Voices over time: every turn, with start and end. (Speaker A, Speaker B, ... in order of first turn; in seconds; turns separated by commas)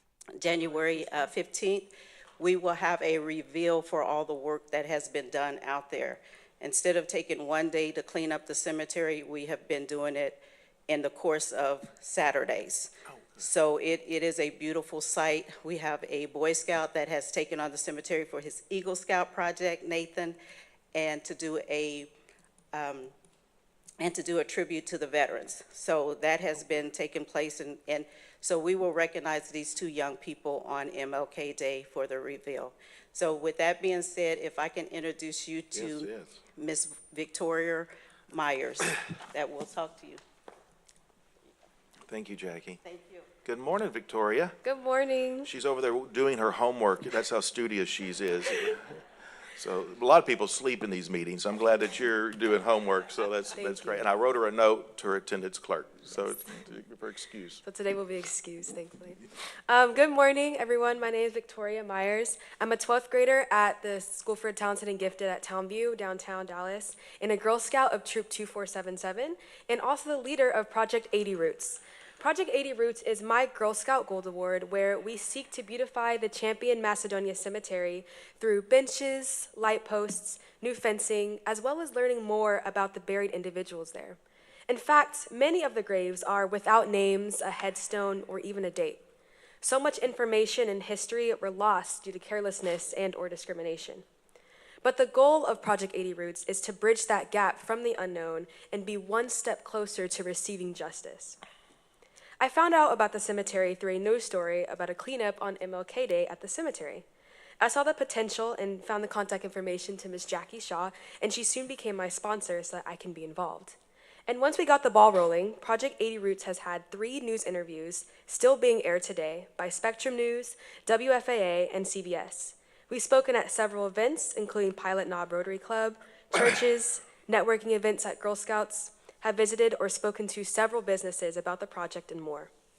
Speaker A: 0.4-20.4, Speaker A: 20.9-22.1, Speaker A: 22.7-23.1, Speaker A: 24.0-40.2, Speaker B: 35.7-36.4, Speaker B: 42.1-42.8, Speaker A: 42.8-43.3, Speaker B: 43.4-44.6, Speaker C: 44.6-45.5, Speaker B: 45.4-49.0, Speaker B: 49.5-57.6, Speaker C: 53.5-54.1, Speaker C: 57.6-84.2, Speaker C: 84.7-89.0, Speaker C: 89.6-94.0, Speaker C: 94.8-101.4, Speaker C: 102.4-107.0, Speaker C: 107.6-132.5